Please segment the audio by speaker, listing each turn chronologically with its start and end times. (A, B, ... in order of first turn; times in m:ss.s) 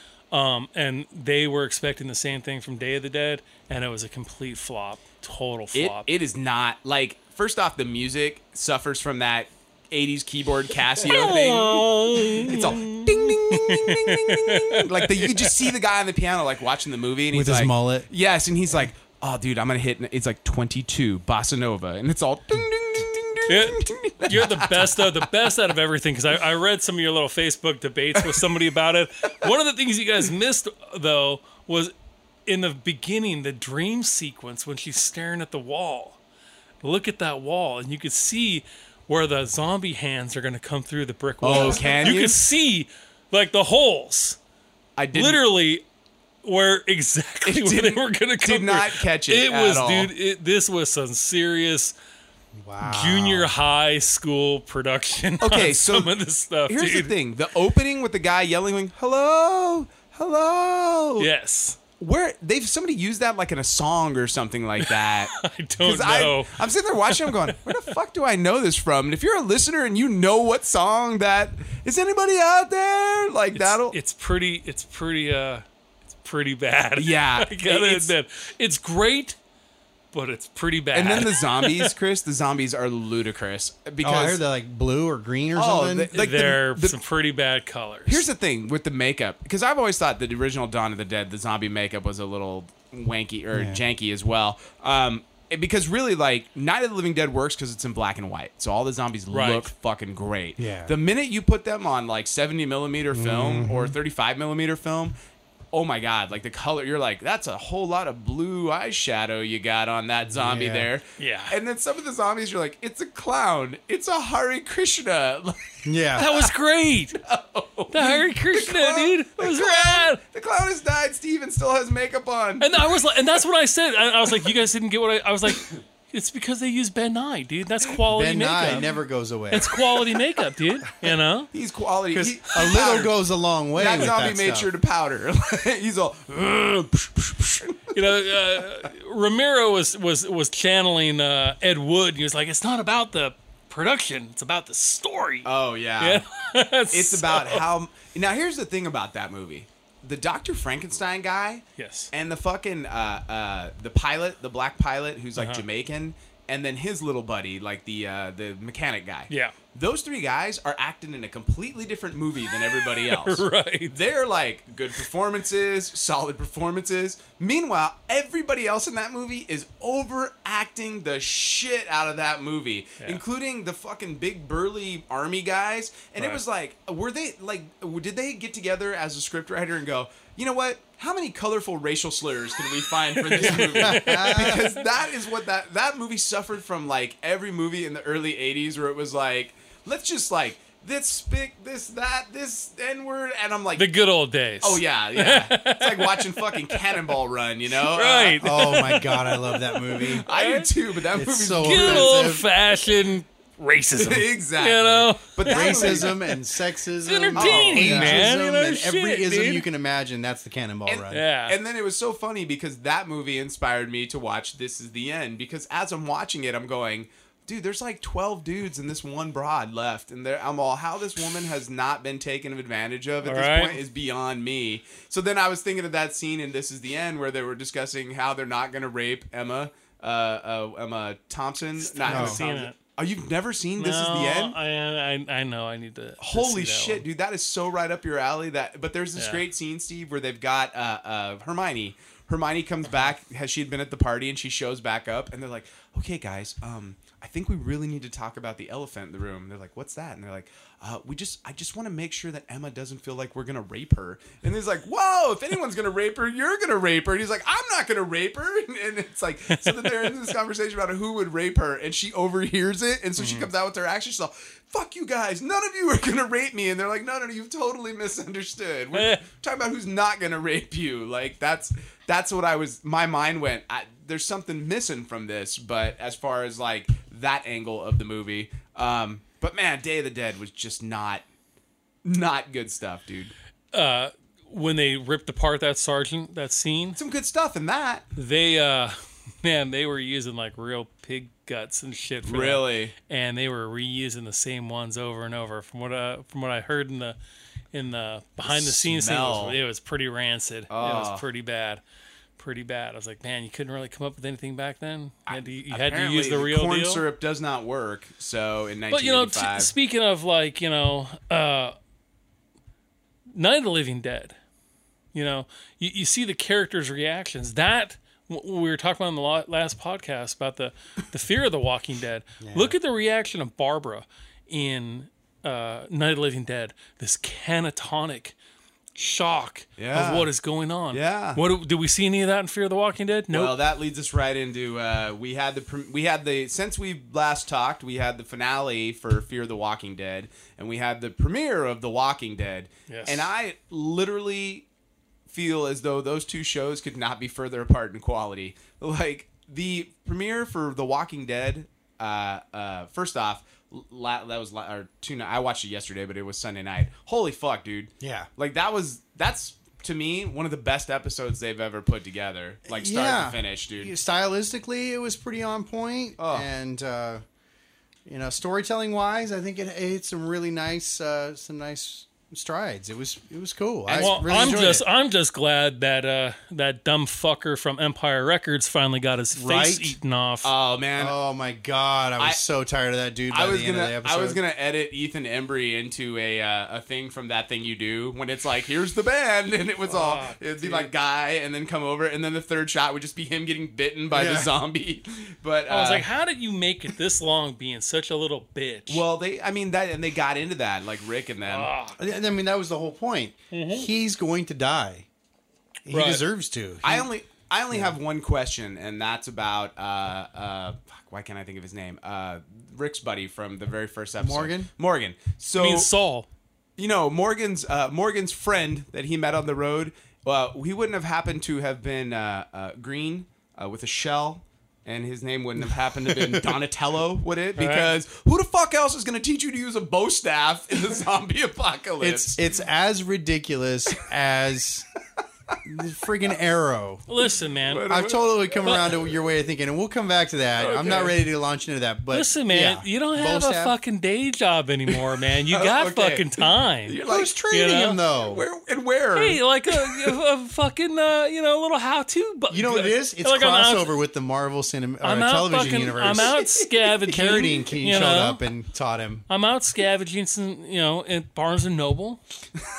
0:00.3-0:06.1 A
0:05.7-0:25.1 B
0:11.0-0:15.7 A
0:17.3-0:18.1 C
0:23.5-0:31.9 A
0:32.5-0:36.2 A
0:36.8-0:44.4 A
0:41.4-0:42.4 B
0:45.0-0:45.4 B
0:45.1-0:45.8 A
0:46.4-0:51.9 A
0:47.4-0:50.1 B
0:52.6-0:53.5 C
0:52.8-0:57.1 A
0:55.4-0:56.1 B
0:56.7-1:01.3 B
1:01.2-1:01.8 A
1:02.0-1:05.3 B
1:04.8-1:07.9 A
1:05.8-1:14.0 B
1:13.5-1:19.4 A
1:17.0-1:18.1 B
1:20.1-1:21.9 A
1:20.9-1:24.4 B
1:24.0-1:26.1 C
1:25.6-1:27.0 B
1:26.1-1:28.2 A
1:28.0-1:45.1 B
1:33.5-1:33.8 C
1:39.3-1:39.7 A
1:40.6-1:40.9 C
1:43.1-1:43.9 C
1:45.7-1:56.4 B
1:50.3-1:50.9 C
1:51.2-1:51.6 A
1:55.8-1:56.3 C
1:56.2-1:57.2 A
1:57.2-2:03.0 B
1:57.9-2:00.2 A
2:02.6-2:08.9 A
2:08.1-2:09.8 C
2:09.5-2:11.5 A
2:11.5-2:13.1 B
2:12.1-2:14.7 C
2:13.8-2:18.0 B
2:17.9-2:25.5 A
2:25.4-2:26.2 B
2:26.0-2:27.6 A
2:26.9-3:13.9 B
2:31.8-2:32.1 A
2:35.4-2:35.6 A
2:43.0-2:44.0 A
3:03.2-3:04.8 A
3:03.5-3:04.7 C
3:13.8-3:17.1 A
3:14.6-3:18.6 B
3:17.8-3:20.7 A
3:18.4-3:20.2 C
3:20.2-3:22.2 B
3:21.1-3:22.4 C
3:21.6-3:26.3 A
3:24.0-3:26.2 B
3:25.5-3:31.2 C
3:27.0-3:29.6 A
3:27.4-3:28.3 B
3:30.9-3:54.6 B
3:31.1-3:31.6 A
3:43.2-3:43.8 A
3:51.8-3:52.8 A
3:52.1-3:52.4 C
3:53.8-3:57.0 A
3:56.2-4:41.2 B
3:59.2-3:59.4 A
4:19.5-4:20.1 A
4:23.2-4:23.5 A
4:28.9-4:29.2 A
4:42.0-4:43.3 B
4:43.7-4:47.0 A
4:47.0-4:48.0 B
4:48.1-4:57.2 A
4:52.2-4:52.9 B
4:57.7-5:01.8 A
4:58.4-4:59.6 B
5:00.7-5:01.2 B
5:02.4-5:07.0 A
5:05.3-5:09.7 B
5:08.9-5:11.7 A
5:13.3-5:14.4 A
5:15.1-5:28.4 A
5:22.4-5:22.7 C
5:29.0-5:33.5 A
5:29.8-5:30.3 B
5:30.9-5:31.4 B
5:33.3-5:44.6 B
5:42.9-5:43.3 A
5:45.3-6:03.9 B
5:58.0-5:58.3 C
6:02.7-6:07.2 C
6:06.2-6:06.5 B
6:08.0-6:14.8 C
6:13.9-6:14.6 B
6:13.9-6:20.5 A
6:19.3-6:20.0 C
6:20.4-6:21.2 B
6:21.0-6:24.4 C
6:23.3-6:36.1 B
6:29.9-6:30.9 A
6:34.1-6:34.5 C
6:35.7-6:39.0 A
6:38.9-6:41.7 B
6:41.4-6:42.0 A
6:42.0-6:45.0 C
6:43.5-6:43.9 A
6:45.8-6:47.1 C
6:45.9-6:46.2 A
6:46.8-6:55.9 B
6:47.7-6:48.0 C
6:54.2-6:54.7 C
6:55.5-6:56.3 A
6:56.8-7:12.4 B
7:06.1-7:06.5 C
7:07.6-7:08.0 A
7:12.0-7:14.8 C
7:15.6-7:17.0 C
7:17.1-7:17.9 A
7:17.7-7:18.6 B
7:17.9-7:23.7 C
7:18.6-7:18.9 A
7:20.6-7:21.1 A
7:20.7-7:21.1 B
7:22.1-7:27.0 A
7:25.5-7:27.4 B
7:27.0-7:28.4 C
7:27.5-7:28.0 A
7:28.2-7:30.1 B
7:29.1-7:33.9 A
7:32.5-7:36.4 C
7:35.0-7:38.4 A
7:37.0-7:39.2 C
7:39.3-7:42.2 A